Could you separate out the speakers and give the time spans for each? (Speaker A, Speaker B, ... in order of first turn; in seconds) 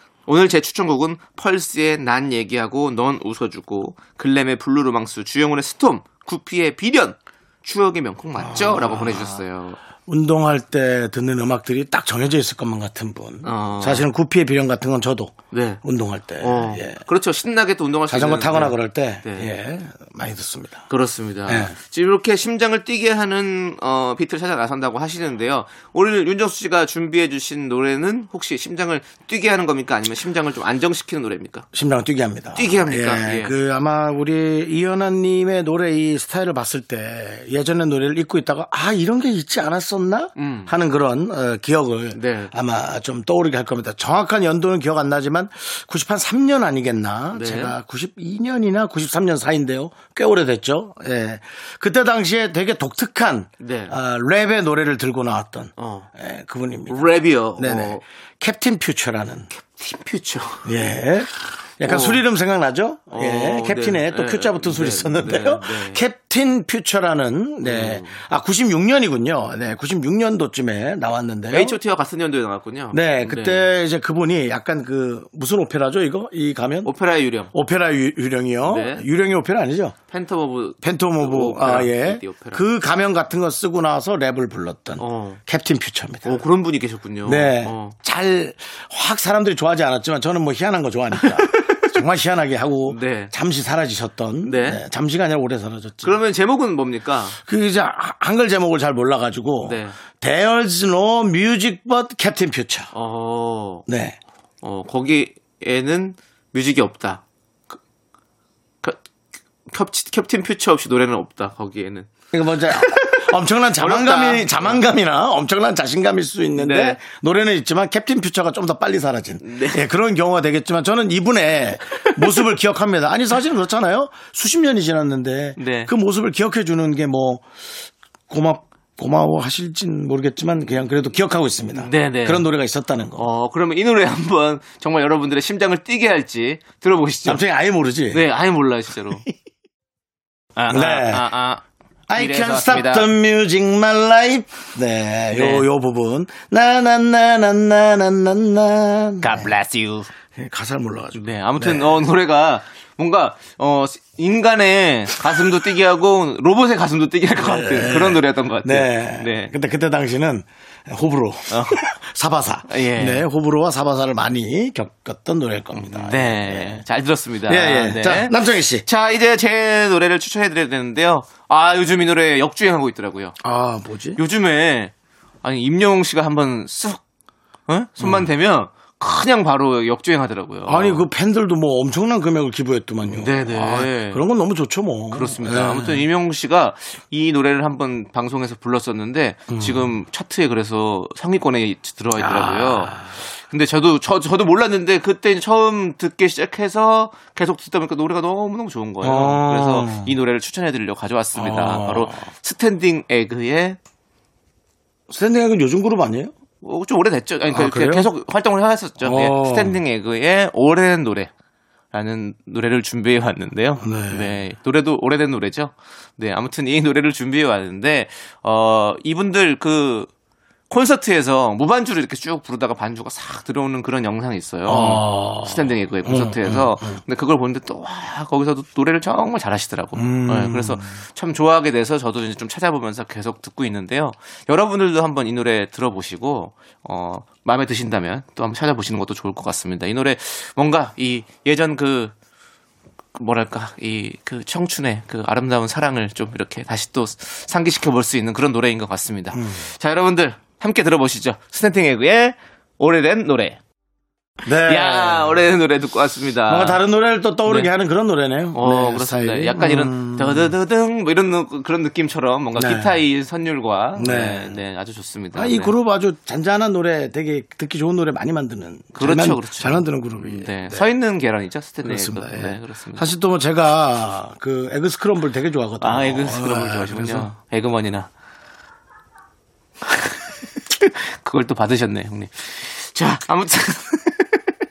Speaker A: 0.3-9.8, 13.4-14.1, 15.5-15.8, 16.4-19.5, 20.9-31.6, 32.5-33.5, 40.4-40.7, 42.1-42.5, 47.3-47.7, 53.6-53.9, 55.8-56.1, 56.9-58.0, 59.5-60.7, 61.8-62.2, 63.1-66.0, 67.6-68.2, 71.5-73.7, 76.8-77.5, 78.7-79.0, 80.1-82.6, 85.0-85.4, 86.2-88.0, 91.2-92.0, 92.9-93.3, 94.4-94.8, 96.0-97.4, 99.6-100.0, 102.9-103.8, 104.6-107.2, 109.7-112.1, 112.7-114.8, 116.5-117.0, 119.4-119.8, 125.6-125.9, 131.7-132.4, 133.2-137.4, 138.1-139.2, 140.6-141.6, 142.1-143.1, 145.3-145.7, 149.2-150.1, 151.2-159.5, 161.5-161.8, 162.7-163.2, 165.7-173.4, 174.2-177.0, 177.7-181.0, 183.1-184.2, 185.1-203.8, 206.6-211.3, 211.9-220.1, 220.7-242.1, 243.1-253.6, 254.6-256.8, 257.4-257.7, 258.5-265.7, 268.9-273.1, 275.8-278.1, 279.9-280.1, 280.7-284.5
Speaker B: 8.4-9.4, 10.1-17.0, 18.1-20.8, 21.5-21.7, 31.7-57.0, 57.5-59.5, 60.6-71.8, 72.9-76.9, 77.5-80.0, 80.8-86.4, 87.2-96.2, 97.4-102.9, 103.9-104.2, 112.3-127.4, 128.3-133.3, 137.2-138.2, 140.7-141.3, 142.1-149.5, 150.3-152.0, 157.4-166.8, 167.5-168.8, 173.4-174.2, 178.0-178.3, 180.7-186.0, 189.5-189.9, 192.2-193.1, 199.0-200.1, 201.3-202.2, 205.1-206.3, 207.5-208.1, 209.0-209.8, 213.8-214.4, 224.7-227.0, 229.9-230.9, 249.3-249.6, 254.4-255.4, 256.5-260.5, 262.6-262.9, 263.9-264.6, 265.3-270.9, 271.8-277.3